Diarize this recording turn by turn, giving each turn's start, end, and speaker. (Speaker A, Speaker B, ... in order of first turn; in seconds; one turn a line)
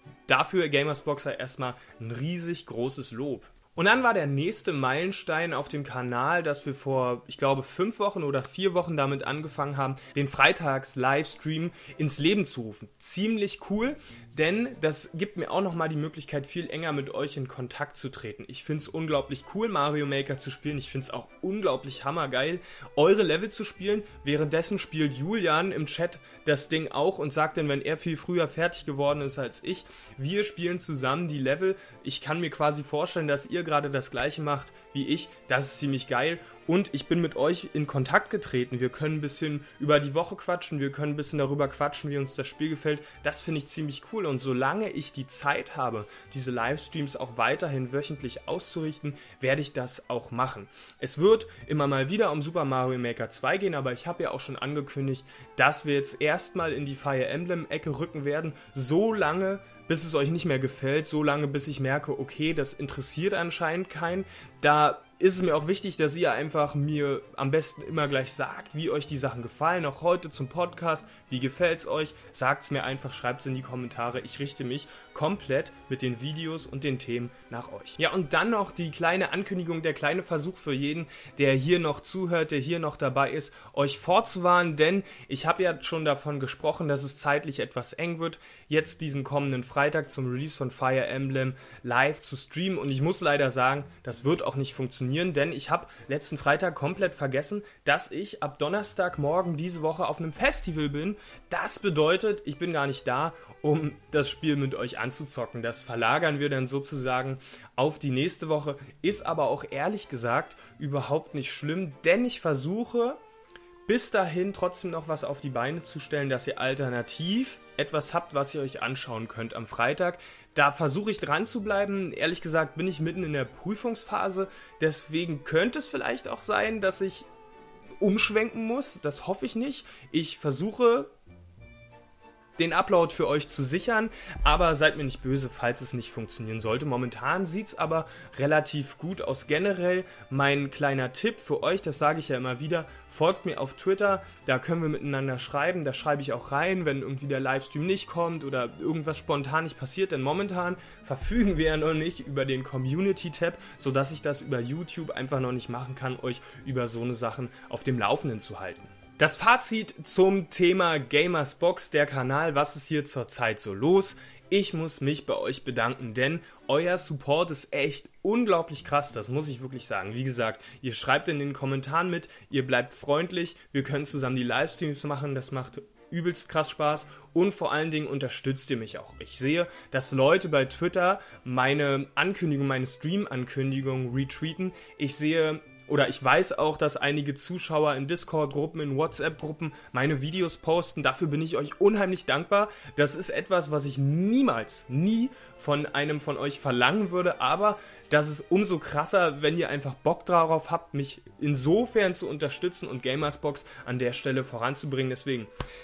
Speaker A: 0.3-113.2
Speaker A: 113.9-127.3
Speaker A: 128.0-131.1
Speaker A: 132.6-205.5